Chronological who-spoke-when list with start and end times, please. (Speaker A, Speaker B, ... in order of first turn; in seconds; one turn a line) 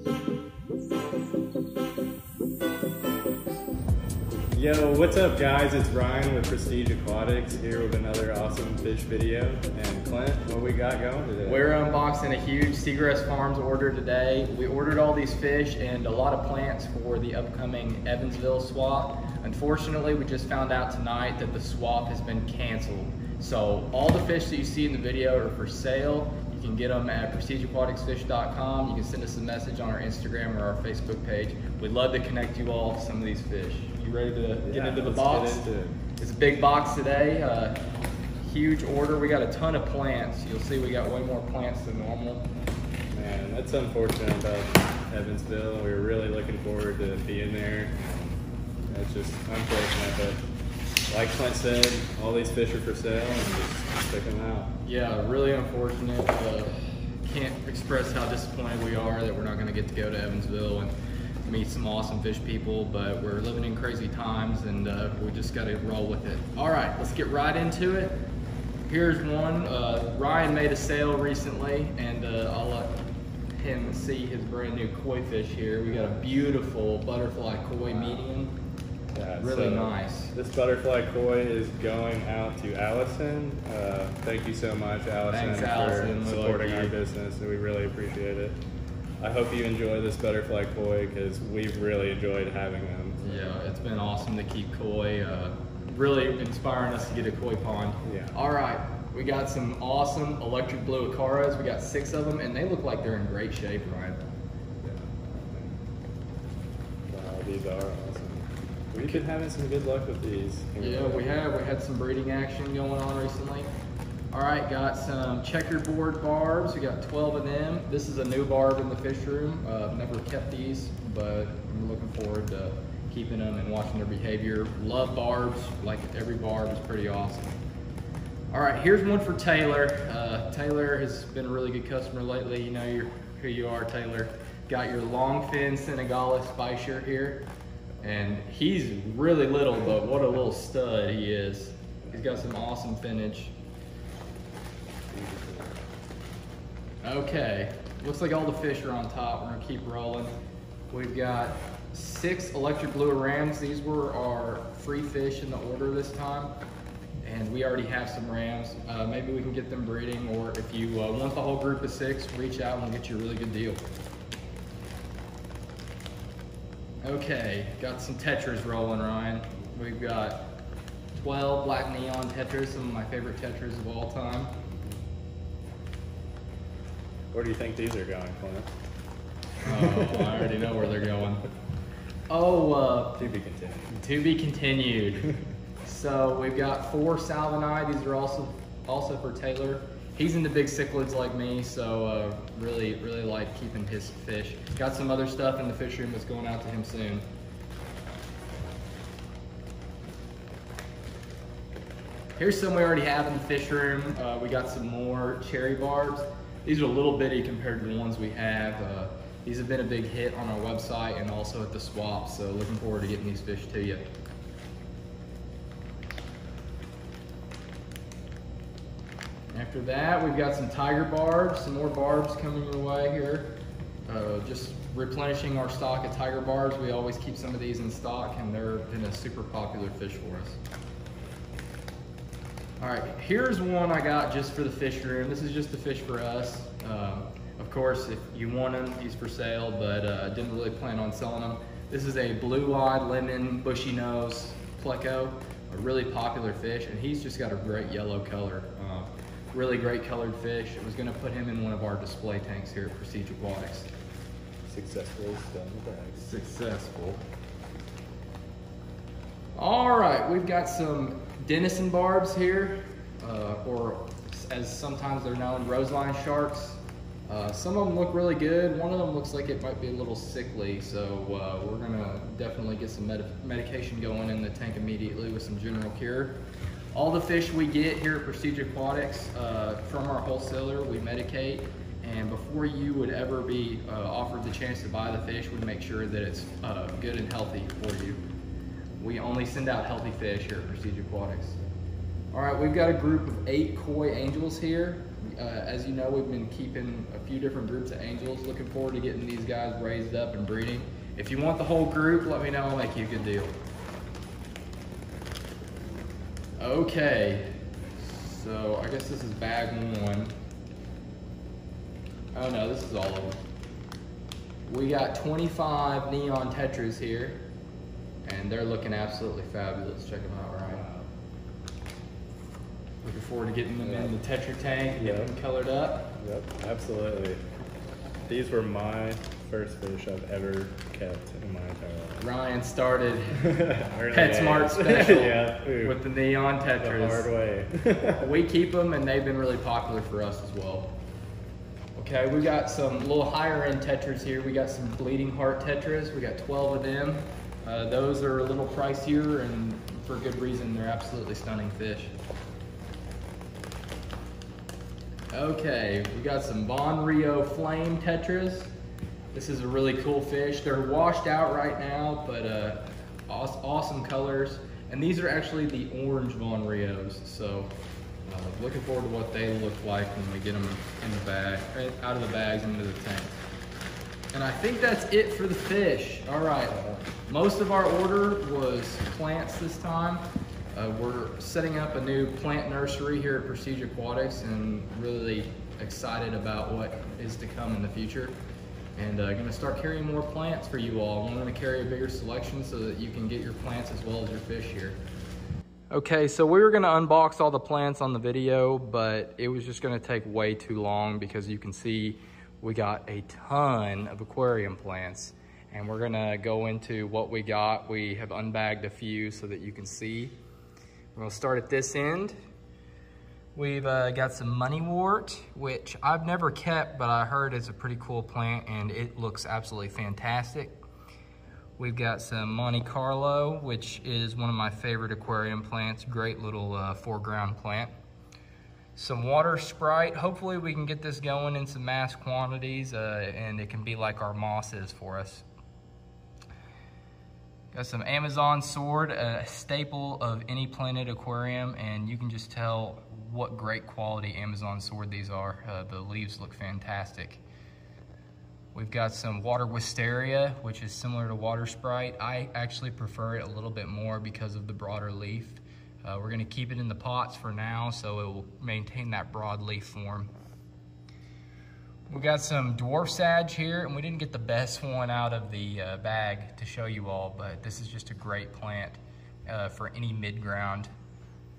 Speaker A: 4.5-11.6
Speaker B: 11.4-35.6
Speaker A: 34.6-36.0
Speaker B: 36.2-37.8
Speaker B: 38.4-42.5
Speaker A: 43.1-50.4
Speaker A: 51.1-54.7
Speaker B: 54.8-60.9
Speaker B: 61.4-68.2
Speaker B: 68.9-72.9
Speaker B: 73.5-78.5
Speaker A: 79.1-88.6
Speaker B: 79.3-80.3
Speaker B: 85.3-87.0
Speaker A: 89.2-93.5
Speaker B: 93.2-104.2
Speaker A: 98.0-98.3
Speaker A: 104.8-105.8
Speaker A: 107.1-111.3
Speaker B: 110.8-113.7
Speaker B: 114.3-127.6
Speaker B: 128.5-137.5
Speaker B: 138.0-143.5
Speaker A: 145.1-145.8
Speaker B: 147.0-150.3
Speaker B: 150.9-156.5
Speaker B: 157.2-163.8
Speaker B: 167.0-170.5
Speaker B: 171.1-174.6
Speaker A: 177.3-178.7
Speaker B: 179.6-181.4
Speaker A: 179.7-180.5
Speaker B: 182.3-183.2
Speaker A: 183.2-183.9
Speaker B: 183.9-185.3
Speaker B: 185.8-197.2
Speaker B: 202.4-214.0
Speaker B: 219.5-230.6
Speaker B: 232.8-253.9
Speaker A: 254.7-256.4
Speaker B: 256.2-257.2
Speaker B: 259.5-276.4
Speaker B: 276.9-288.2
Speaker B: 289.0-291.6
Speaker B: 292.3-303.6
Speaker B: 306.6-310.3
Speaker B: 312.3-313.4
Speaker B: 314.6-317.4
Speaker B: 318.2-320.8
Speaker A: 320.7-321.1
Speaker B: 323.0-326.1
Speaker A: 323.8-324.1
Speaker A: 325.0-325.4
Speaker A: 326.2-327.4
Speaker A: 328.3-332.3
Speaker B: 332.2-337.3
Speaker A: 333.4-336.0
Speaker A: 336.8-338.3
Speaker B: 338.1-340.9
Speaker B: 341.9-352.1
Speaker B: 355.3-358.7
Speaker B: 359.3-367.7
Speaker B: 368.2-373.4
Speaker B: 374.3-380.2
Speaker B: 380.7-388.4
Speaker B: 388.9-395.0
Speaker B: 395.9-410.3
Speaker B: 411.1-412.3
Speaker B: 413.6-420.7
Speaker B: 421.8-427.9
Speaker B: 428.9-435.4
Speaker B: 437.7-447.4
Speaker B: 448.7-460.3
Speaker B: 462.1-470.9